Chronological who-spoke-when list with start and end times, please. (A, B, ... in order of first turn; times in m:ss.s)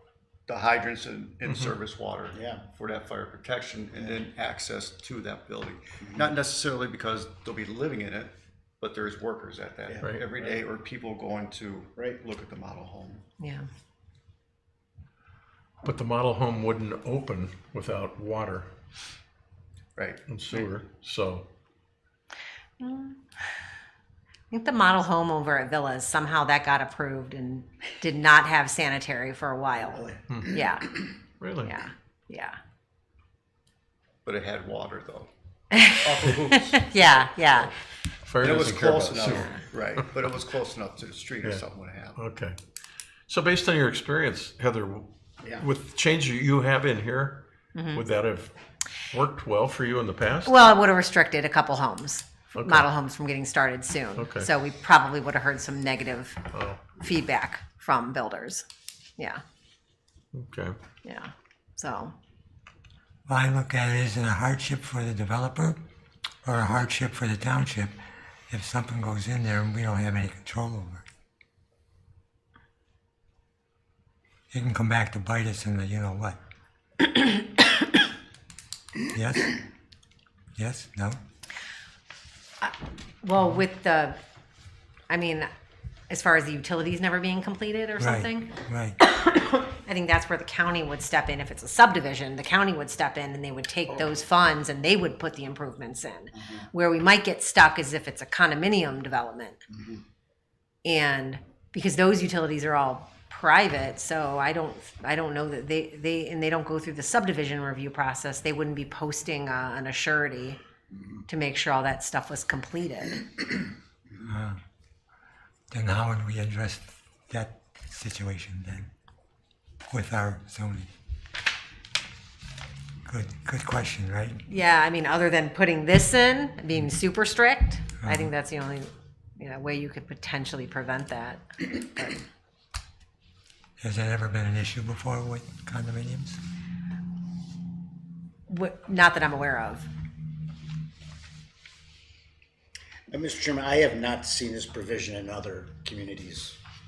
0:00.5-0:13.2 A
0:01.4-0:01.8 B
0:02.3-0:02.6 C
0:06.0-0:06.3 C
0:09.9-0:10.6 C
0:13.4-0:13.7 D
0:15.8-0:18.7 B
0:20.3-0:21.5 B
0:22.8-0:23.2 D
0:24.5-0:31.0 D
0:30.3-0:30.6 B
0:31.4-0:31.8 B
0:31.6-0:32.6 D
0:34.2-0:35.3 A
0:35.7-0:37.7 D
0:36.0-0:36.6 A
0:38.3-0:40.2 B
0:38.4-0:42.2 A
0:39.3-0:39.6 D
0:42.2-0:42.6 B
0:43.3-0:48.5 B
0:47.7-0:48.0 D
0:49.1-0:50.6 B
0:50.4-0:56.4 D
0:52.6-0:52.9 B
0:54.1-0:54.5 B
0:56.5-0:57.0 B
0:57.0-0:58.6 D
1:00.3-1:00.8 B
1:01.0-1:02.1 D
1:03.3-1:05.8 E
1:06.4-1:08.0 E
1:08.5-1:11.0 E
1:14.5-1:16.4 E
1:19.1-1:19.5 E
1:20.6-1:21.2 E
1:22.6-1:24.2 D
1:25.1-1:25.5 D
1:26.1-1:39.6 D
1:28.0-1:29.0 E
1:36.4-1:36.7 C
1:39.7-1:40.0 C
1:40.8-1:50.6 D
1:51.3-1:53.4 D
1:54.2-1:54.6 E
1:55.7-1:58.9 E
1:59.9-2:00.9 E
2:03.1-2:04.4 E
2:04.5-2:12.2 D
2:08.0-2:08.3 E
2:13.8-2:16.4 E
2:18.5-2:19.9 D
2:23.1-2:26.6 C